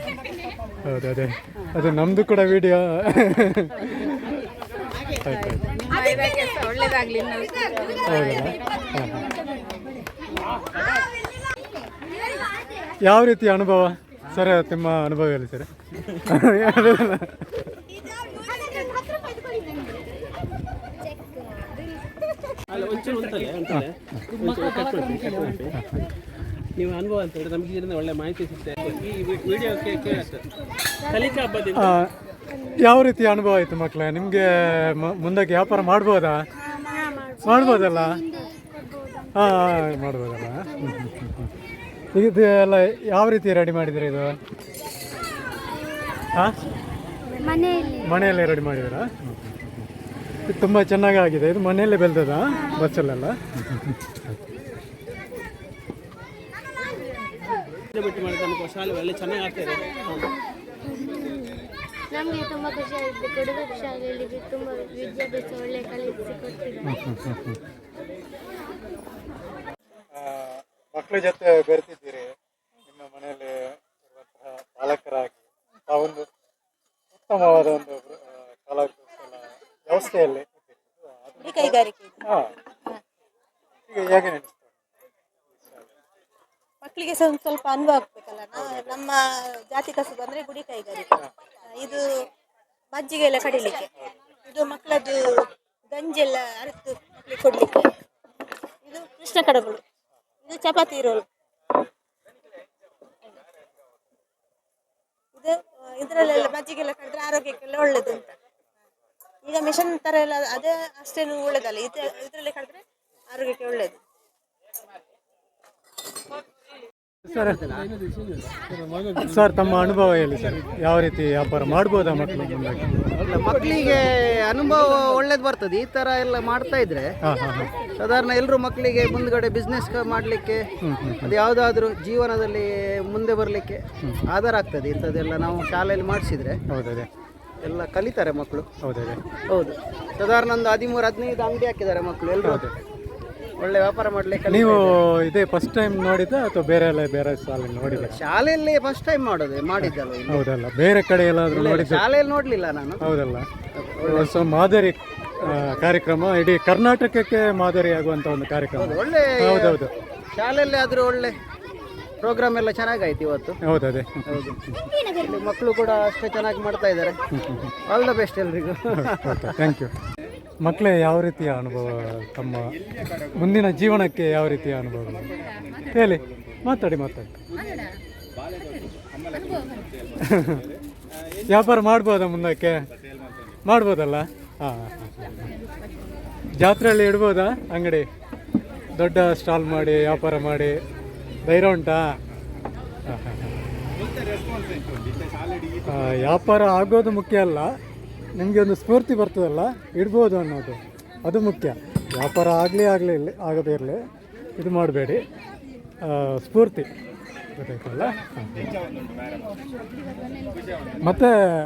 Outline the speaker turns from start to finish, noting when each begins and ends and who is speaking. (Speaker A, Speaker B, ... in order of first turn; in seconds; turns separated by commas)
Speaker A: 0.8-4.1, Speaker A: 5.2-6.2, Speaker B: 5.8-8.6, Speaker A: 8.1-9.3, Speaker A: 13.0-15.7, Speaker A: 16.2-17.4, Speaker C: 18.2-19.9, Speaker C: 21.1-21.8, Speaker D: 22.7-25.8, Speaker A: 23.7-24.2, Speaker D: 26.8-30.4, Speaker D: 31.1-31.9, Speaker C: 31.1-31.4, Speaker A: 31.8-32.1, Speaker A: 32.8-36.4, Speaker C: 36.6-39.9, Speaker A: 37.4-38.2, Speaker A: 39.3-41.5, Speaker C: 40.7-41.1, Speaker A: 42.1-44.4, Speaker C: 47.4-48.0, Speaker A: 48.0-49.9, Speaker A: 50.5-54.4, Speaker D: 57.9-60.2, Speaker C: 60.9-67.0, Speaker A: 66.8-67.6, Speaker A: 70.1-72.3, Speaker A: 72.9-75.4, Speaker A: 75.9-76.3, Speaker A: 77.3-80.7, Speaker E: 81.4-82.2, Speaker A: 83.9-84.6, Speaker E: 86.8-92.0, Speaker E: 92.9-93.9, Speaker E: 94.5-97.9, Speaker E: 98.8-99.8, Speaker E: 100.5-101.2, Speaker E: 105.3-108.3, Speaker E: 109.5-114.0, Speaker A: 117.3-117.6, Speaker D: 118.7-119.1, Speaker A: 119.2-122.9, Speaker F: 123.2-127.1, Speaker D: 123.4-123.6, Speaker A: 127.2-127.7, Speaker F: 128.0-130.7, Speaker A: 130.8-131.3, Speaker F: 131.2-136.6, Speaker A: 136.7-137.1, Speaker F: 137.6-138.7, Speaker A: 138.8-139.2, Speaker F: 139.5-142.7, Speaker A: 142.4-142.7, Speaker F: 143.6-144.9, Speaker A: 144.5-148.2, Speaker F: 147.9-150.4, Speaker A: 149.8-152.0, Speaker F: 151.5-153.0, Speaker A: 153.0-153.5, Speaker F: 153.8-154.3, Speaker A: 154.1-159.9, Speaker F: 155.4-155.7, Speaker F: 158.8-159.8, Speaker F: 160.4-161.3, Speaker F: 162.2-163.6, Speaker A: 163.6-164.9, Speaker F: 164.3-164.6, Speaker F: 165.2-167.2, Speaker A: 167.3-167.7, Speaker F: 167.9-169.5, Speaker A: 168.9-169.9, Speaker A: 170.6-172.7, Speaker A: 173.3-175.3, Speaker A: 175.9-177.4, Speaker A: 180.2-180.6, Speaker A: 181.5-182.8, Speaker A: 183.7-185.4, Speaker A: 186.6-188.1, Speaker A: 188.9-190.8, Speaker A: 191.5-192.2, Speaker A: 193.1-193.6, Speaker A: 195.9-197.7, Speaker A: 198.4-204.0, Speaker A: 204.6-205.2, Speaker A: 206.0-206.9, Speaker A: 207.6-208.8, Speaker A: 211.0-211.4